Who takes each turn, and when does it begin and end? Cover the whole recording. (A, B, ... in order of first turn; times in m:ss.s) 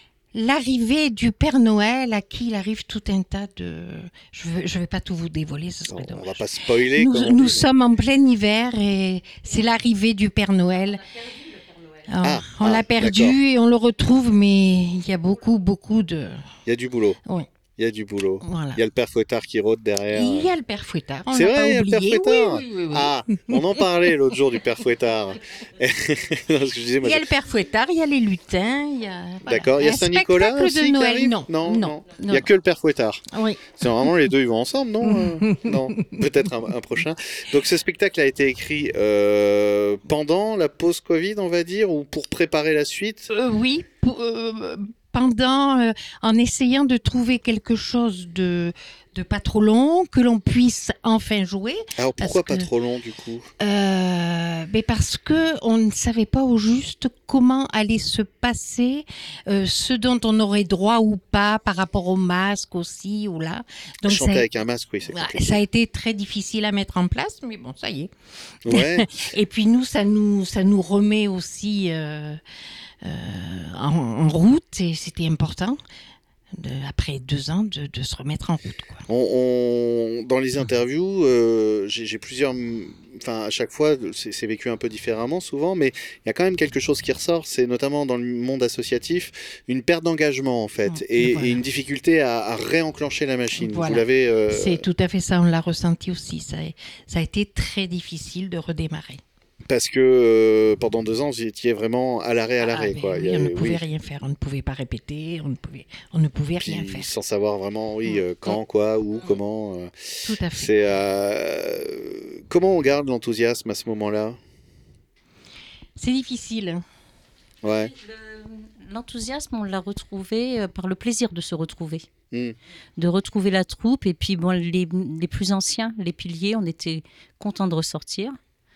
0:00.3-0:11.3 A
0:05.9-0:07.7 B
0:12.0-0:16.4 A
0:12.2-0:13.4 B
0:16.6-0:17.2 B
0:17.8-0:20.5 B
0:18.4-0:18.8 A
0:20.1-0:24.1 A
0:21.3-0:27.2 B
0:27.0-0:32.5 A
0:29.4-0:33.2 B
0:33.3-0:33.8 A
0:33.8-0:43.3 B
0:35.0-0:36.0 A
0:43.3-0:52.7 A
0:52.0-0:53.5 B
0:53.6-1:04.5 A
1:04.0-1:05.6 B
1:05.1-1:08.1 A
1:08.6-1:09.2 B
1:08.7-1:12.4 A
1:13.0-1:15.8 A
1:16.6-1:19.0 A
1:19.1-1:34.8 B
1:30.9-1:31.6 A
1:33.6-1:39.2 A
1:39.7-1:43.8 B
1:42.6-1:47.1 A
1:46.6-1:49.9 B
1:48.0-1:48.6 A
1:50.2-1:50.7 A
1:50.5-1:54.4 B
1:56.0-1:56.8 A
1:57.6-1:57.9 B
1:57.9-2:02.0 C
2:03.0-2:08.4 C